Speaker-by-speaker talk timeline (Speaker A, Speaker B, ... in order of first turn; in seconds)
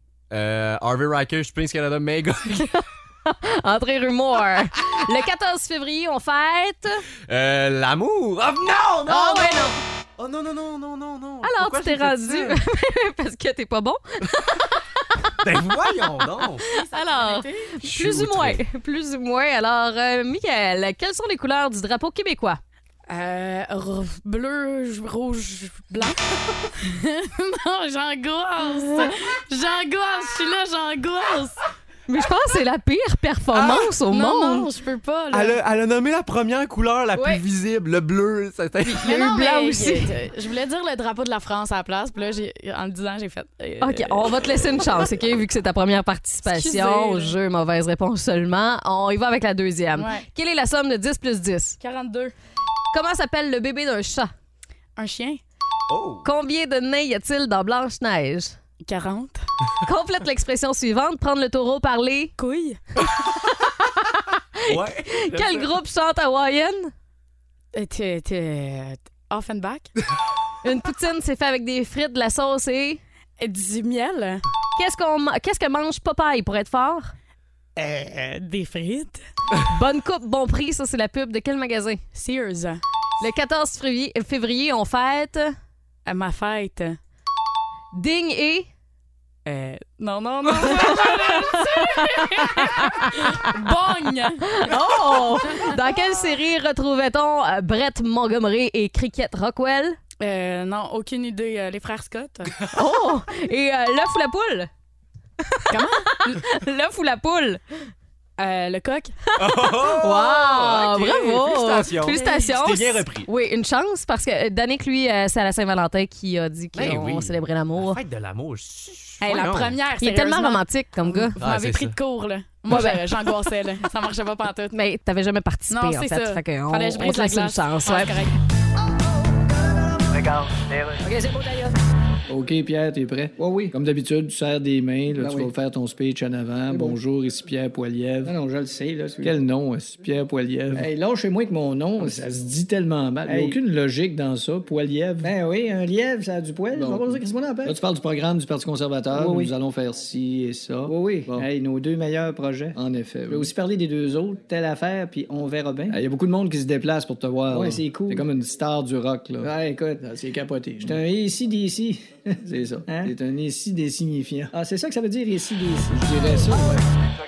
Speaker A: 0.3-2.7, 7.3-12.6, 15.4-16.6, 17.8-18.6, 33.5-33.9, 35.3-39.1, 55.9-56.3, 64.6-65.7, 109.4-113.3, 116.7-119.8, 121.4-122.0
Speaker B: 2.7-7.0, 9.1-9.8, 11.4-15.3, 16.7-22.6, 32.1-34.7, 37.1-37.4, 38.9-40.1, 43.8-51.8, 52.9-54.3, 56.2-58.5, 59.8-62.3, 64.6-66.9, 70.6-73.0, 74.8-77.1, 79.6-82.0, 83.2-85.5, 87.9-88.7, 90.6-93.2, 94.4-100.0, 102.7-104.7, 105.5-107.6, 109.4-118.0, 120.0-121.4, 122.7-123.0, 124.7-128.2
Speaker C: 16.7-17.7, 23.1-26.2, 26.8-31.6, 34.1-35.6, 39.0-44.3, 46.5-47.4, 50.0-50.3, 51.8-52.3, 55.0-55.4, 58.8-59.5, 62.4-62.8, 67.7-69.9, 73.4-74.4, 77.8-79.2, 82.1-82.8, 86.0-87.0, 89.5-94.4, 95.5-95.8, 100.2-102.5, 105.7-106.4, 108.4-109.1, 112.0-112.4, 119.2-124.7, 125.7-128.3
Speaker D: 130.1-131.7, 149.2-149.5
Speaker E: 130.2-130.9, 133.4-133.7, 135.2-135.5, 138.2-139.3, 140.7-142.3, 143.2-143.6, 145.2-147.8, 150.8-151.5, 153.3-153.6, 157.5-158.2, 159.4-159.9
Speaker F: 132.3-138.3, 139.2-140.9, 142.0-145.3, 146.7-151.5, 152.7-153.5, 155.9-159.5, 160.0-161.0, 162.4-164.9, 165.8-166.8